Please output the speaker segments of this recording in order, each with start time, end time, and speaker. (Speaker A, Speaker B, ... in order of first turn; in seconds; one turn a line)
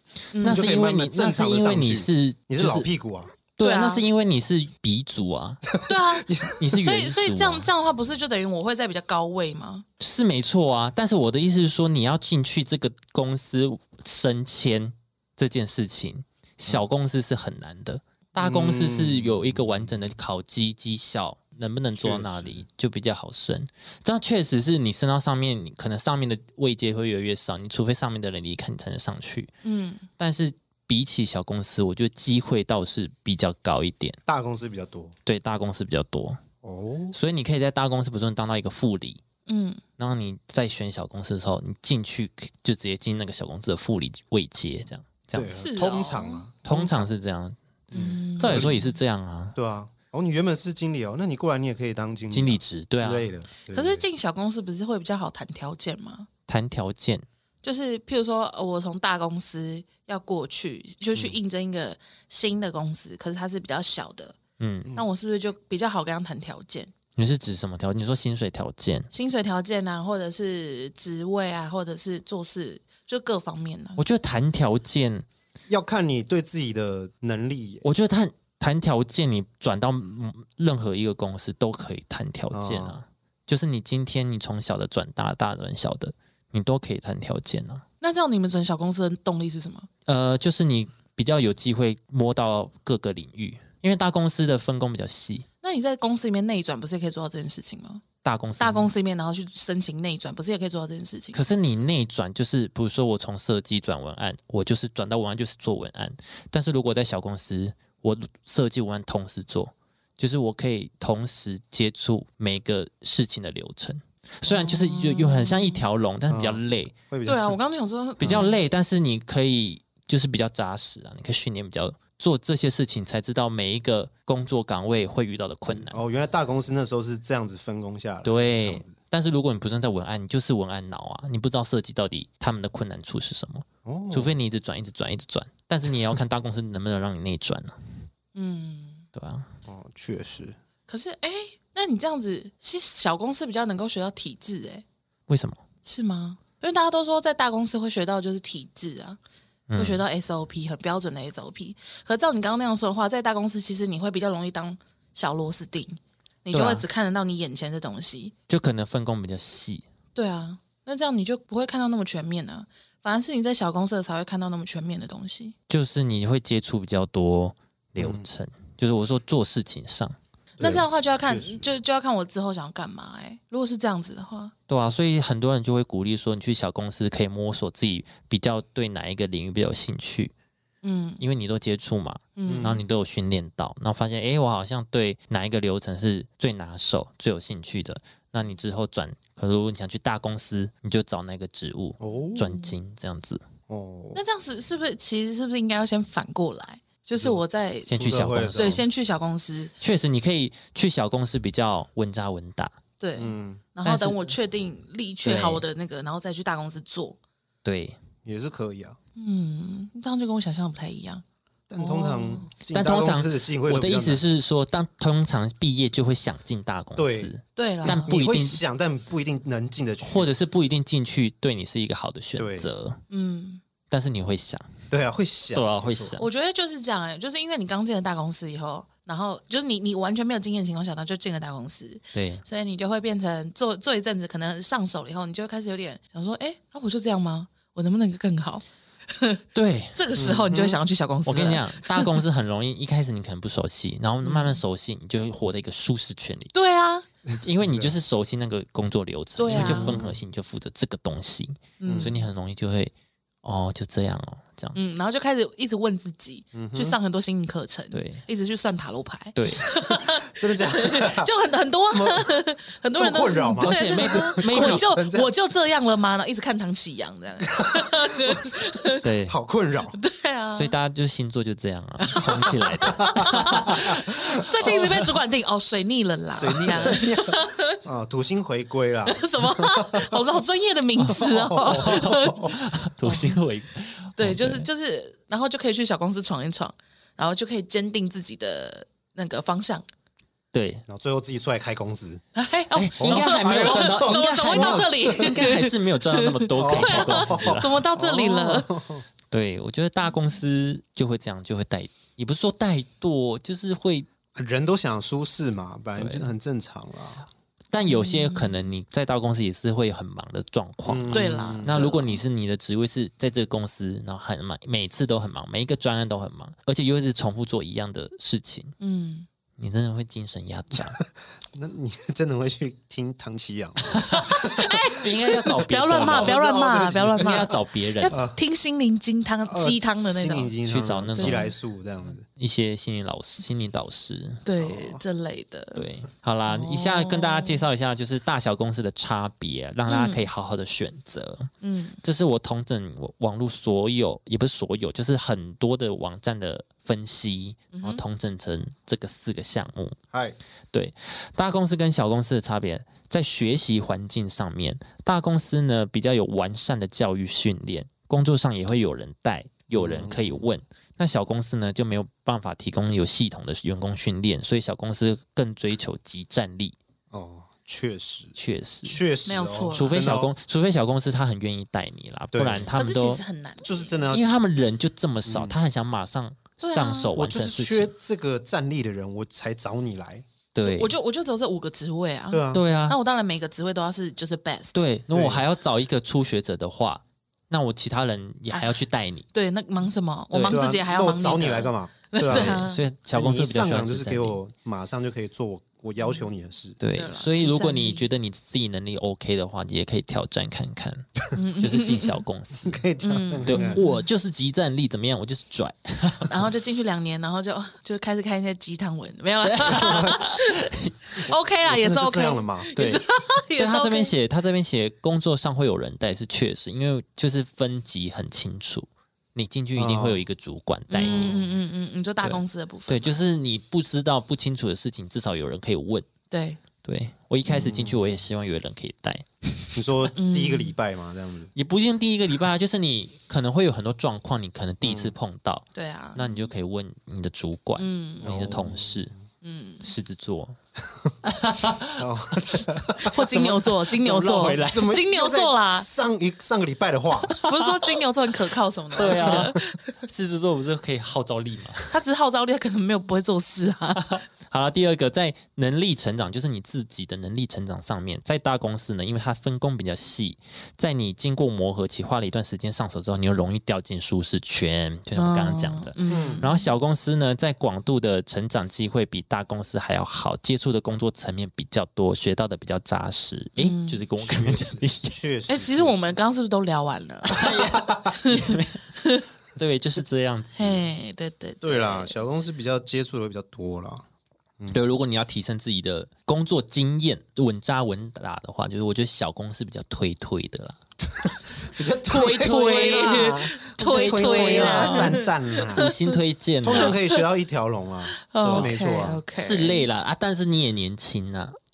Speaker A: 0.3-0.7
Speaker B: 0.4-2.9
Speaker C: 0.4-3.3
Speaker B: 3.5-5.6
Speaker A: 3.6-4.0
Speaker C: 5.7-6.6
Speaker A: 5.8-9.8
Speaker B: 6.6-7.7
Speaker B: 10.0-29.5
Speaker C: 18.4-19.6
Speaker C: 21.9-22.6
Speaker A: 29.6-30.1
Speaker B: 30.2-34.2
Speaker C: 34.2-35.1
Speaker B: 35.2-36.4
Speaker C: 36.6-37.1
Speaker B: 37.1-39.2
Speaker A: 39.5-39.8
Speaker B: 40.0-45.6
Speaker C: 45.3-47.1
Speaker A: 45.4-46.4
Speaker B: 46.6-49.6
Speaker A: 47.9-48.9
Speaker C: 47.9-48.8
Speaker C: 49.5-54.0
Speaker B: 52.3-53.3
Speaker A: 53.7-56.3
Speaker B: 56.5-57.2
Speaker A: 57.6-64.4
Speaker B: 64.6-64.9
Speaker A: 64.9-66.9
Speaker B: 67.2-69.1
Speaker A: 69.1-74.0
Speaker B: 74.0-75.2
Speaker C: 75.7-77.8
Speaker B: 77.8-87.8
Speaker C: 82.5-83.0
Speaker A: 88.0-89.9
Speaker B: 90.1-95.5
Speaker A: 95.6-98.0
Speaker B: 98.2-98.9
Speaker A: 98.6-101.4
Speaker B: 101.3-116.9
Speaker A: 114.4-115.8
Speaker C: 116.3-117.5
Speaker A: 117.2-118.6
Speaker C: 118.2-118.5
Speaker B: 118.2-126.0
Speaker C: 125.7-128.9
Speaker B: 128.2-137.8
Speaker C: 133.8-134.3
Speaker A: 138.3-139.0
Speaker B: 139.1-139.4
Speaker C: 139.7-140.6
Speaker A: 140.9-144.8
Speaker B: 145.3-145.6
Speaker A: 145.8-149.2
Speaker B: 149.7-150.0
Speaker A: 149.8-158.3
Speaker B: 156.5-156.8
Speaker B: 158.5-159.8
Speaker A: 160.1-165.5
Speaker B: 165.7-170.2
Speaker C: 168.0-168.2
Speaker C: 170.6-171.6
Speaker A: 170.6-174.5
Speaker B: 174.7-180.3
Speaker A: 180.8-181.2
Speaker B: 181.2-193.4
Speaker A: 182.4-182.8
Speaker C: 182.5-182.8
Speaker C: 192.0-192.4
Speaker A: 192.3-192.7
Speaker C: 193.7-194.2
Speaker A: 194.1-199.7
Speaker C: 197.2-198.8
Speaker B: 197.9-198.8
Speaker B: 199.8-202.7
Speaker A: 203.0-207.2
Speaker C: 203.2-203.6
Speaker B: 203.8-204.3
Speaker B: 205.2-205.6
Speaker B: 207.6-208.0
Speaker C: 208.2-209.0
Speaker A: 209.2-211.2
Speaker C: 211.7-214.2
Speaker A: 211.8-212.5
Speaker B: 212.7-218.6
Speaker C: 216.9-217.3
Speaker A: 217.6-218.1
Speaker C: 217.8-220.3
Speaker B: 220.0-223.0
Speaker C: 222.3-222.7
Speaker A: 223.1-223.6
Speaker B: 223.9-224.7
Speaker C: 224.9-226.2
Speaker B: 225.5-226.3
Speaker A: 226.2-239.4
Speaker B: 232.1-232.4
Speaker B: 239.5-240.0
Speaker A: 239.9-242.2
Speaker C: 240.2-240.8
Speaker B: 241.2-246.5
Speaker A: 244.2-244.6
Speaker A: 246.5-247.1
Speaker C: 247.3-247.9
Speaker B: 247.4-252.9
Speaker A: 249.4-250.0
Speaker C: 249.5-250.2
Speaker A: 251.8-252.3
Speaker C: 251.8-252.1
Speaker B: 253.4-254.8
Speaker A: 254.7-269.1
Speaker C: 256.5-257.0
Speaker B: 257.9-258.2
Speaker B: 259.4-259.6
Speaker C: 259.6-261.3
Speaker C: 261.9-262.3
Speaker C: 262.9-265.3
Speaker B: 263.6-264.9
Speaker C: 267.5-268.6
Speaker B: 269.0-269.4
Speaker C: 269.2-269.9
Speaker A: 269.9-270.7
Speaker B: 270.6-273.8
Speaker A: 272.0-277.8
Speaker C: 272.4-274.9
Speaker C: 276.4-280.2
Speaker A: 279.1-282.5
Speaker B: 281.0-284.7
Speaker C: 281.1-282.5
Speaker A: 283.0-283.4
Speaker A: 284.2-289.8
Speaker B: 290.5-290.8
Speaker C: 290.9-292.2
Speaker A: 292.3-298.7
Speaker B: 292.7-297.8
Speaker C: 293.0-295.4
Speaker C: 296.5-299.0
Speaker B: 299.3-304.1
Speaker C: 304.3-307.3
Speaker B: 306.0-306.3
Speaker B: 307.7-318.7
Speaker A: 307.9-308.6
Speaker C: 310.9-311.8
Speaker A: 311.1-312.2
Speaker A: 318.8-319.3
Speaker B: 319.6-321.0
Speaker C: 321.5-324.8
Speaker A: 324.1-330.5
Speaker B: 324.9-326.4
Speaker C: 325.9-327.5
Speaker B: 327.2-328.2
Speaker C: 328.1-328.4
Speaker C: 329.5-332.2
Speaker B: 330.6-331.5
Speaker A: 331.1-331.5
Speaker B: 332.3-334.4
Speaker A: 334.4-335.8
Speaker C: 334.6-335.0
Speaker B: 335.7-341.5
Speaker A: 336.5-337.6
Speaker A: 339.9-340.2
Speaker A: 341.6-342.0
Speaker B: 342.0-350.0
Speaker A: 347.7-348.0
Speaker B: 350.7-366.8
Speaker C: 359.7-360.4
Speaker C: 367.1-370.3
Speaker B: 368.4-369.0
Speaker A: 369.2-369.9
Speaker B: 369.7-373.2
Speaker C: 372.3-372.7
Speaker A: 372.7-374.0
Speaker C: 373.6-374.3
Speaker B: 374.1-377.9
Speaker C: 375.2-375.6
Speaker A: 376.6-377.1
Speaker C: 377.1-380.3
Speaker B: 380.5-380.9
Speaker A: 380.6-384.8
Speaker C: 382.3-382.6
Speaker B: 382.5-383.0
Speaker B: 384.7-389.2
Speaker C: 385.1-385.4
Speaker A: 388.5-388.8
Speaker A: 389.3-392.8
Speaker B: 390.3-390.6
Speaker C: 390.5-396.8
Speaker B: 392.2-394.4
Speaker B: 396.8-402.8
Speaker A: 396.9-398.1
Speaker A: 401.3-402.2
Speaker C: 402.6-403.8
Speaker A: 403.0-404.0
Speaker B: 403.4-406.3
Speaker A: 406.2-414.1
Speaker B: 409.4-411.2
Speaker C: 411.6-412.7
Speaker B: 412.8-421.4
Speaker C: 419.8-420.2
Speaker A: 420.9-423.2
Speaker C: 421.1-421.4
Speaker B: 422.2-426.1
Speaker A: 426.3-426.6
Speaker B: 426.8-430.1
Speaker C: 427.4-428.0
Speaker C: 429.7-431.5
Speaker A: 430.1-430.7
Speaker B: 431.5-439.1
Speaker C: 434.8-435.1
Speaker A: 435.7-436.4
Speaker A: 437.8-438.5
Speaker C: 438.2-439.1
Speaker A: 439.4-439.9
Speaker B: 439.8-440.6
Speaker B: 441.2-445.0
Speaker C: 442.0-443.2
Speaker A: 443.0-445.9
Speaker C: 444.4-447.4
Speaker B: 447.3-448.0
Speaker A: 447.4-449.8
Speaker B: 448.9-452.0
Speaker C: 449.0-449.6
Speaker A: 451.9-454.2
Speaker B: 453.9-475.1
Speaker A: 465.1-466.7
Speaker C: 466.1-466.4
Speaker A: 473.6-474.0
Speaker C: 474.2-476.1
Speaker A: 475.5-477.6
Speaker B: 477.3-478.9
Speaker C: 477.4-478.1
Speaker A: 478.2-479.2
Speaker B: 479.5-480.8
Speaker A: 480.6-482.2
Speaker C: 481.6-484.0
Speaker B: 484.7-490.8
Speaker C: 491.2-495.9
Speaker A: 492.1-496.1
Speaker B: 492.4-493.2
Speaker B: 493.8-495.2
Speaker B: 495.7-497.0
Speaker C: 496.6-499.2
Speaker A: 496.7-497.2
Speaker A: 498.2-499.9
Speaker B: 498.4-501.6